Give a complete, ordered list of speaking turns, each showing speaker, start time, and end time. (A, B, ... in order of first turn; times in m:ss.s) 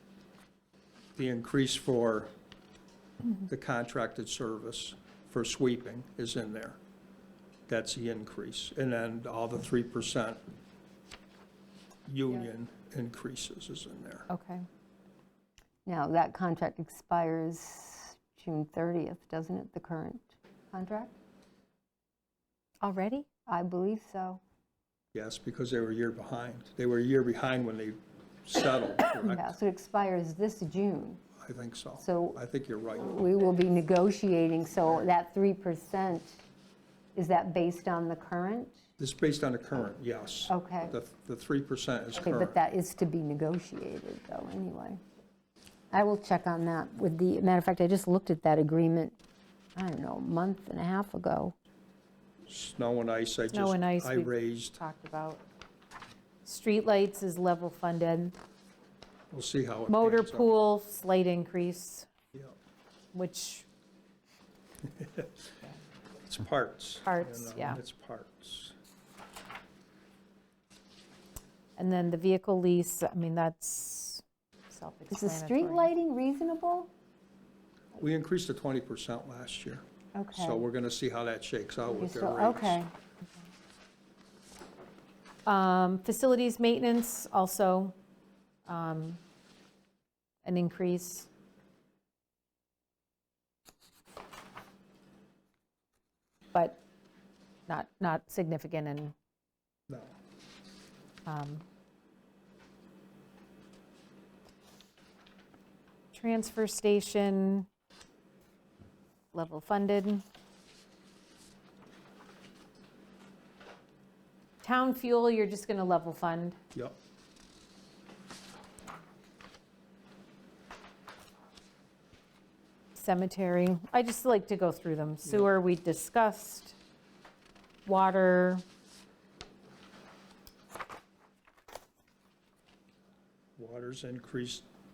0:01.2-0:02.3 A
0:03.4-0:06.8 A
0:07.7-0:10.4 A
0:12.0-0:14.3 A
0:14.3-0:14.6 B
0:15.8-0:21.1 C
0:22.8-0:23.3 B
0:23.5-0:24.4 C
0:25.1-0:29.6 A
0:29.2-0:31.2 C
0:31.4-0:33.4 A
0:32.0-0:32.4 C
0:33.0-0:36.4 C
0:37.1-0:38.8 C
0:39.0-0:42.6 A
0:40.5-0:40.9 C
0:42.2-0:45.0 C
0:45.9-0:49.2 C
0:49.8-0:51.5 C
0:52.5-0:54.8 A
0:53.5-0:55.4 B
0:56.4-0:58.4 B
0:59.3-1:00.5 A
0:59.9-1:02.1 B
1:03.1-1:03.7 B
1:05.0-1:05.3 A
1:06.2-1:08.7 A
1:07.0-1:07.8 B
1:11.8-1:15.9 B
1:15.1-1:16.9 C
1:18.0-1:19.8 A
1:20.1-1:20.6 C
1:20.3-1:22.8 A
1:21.9-1:22.9 C
1:25.4-1:28.0 B
1:28.6-1:29.2 B
1:30.4-1:31.3 B
1:36.5-1:36.8 B
1:37.7-1:39.1 B
1:39.9-1:40.1 A
1:41.2-1:41.6 B
1:46.1-1:47.7 B
1:49.3-1:50.2 B
1:54.6-1:56.6 B
2:02.9-2:06.8 B
2:07.8-2:08.6 B
2:13.6-2:14.6 A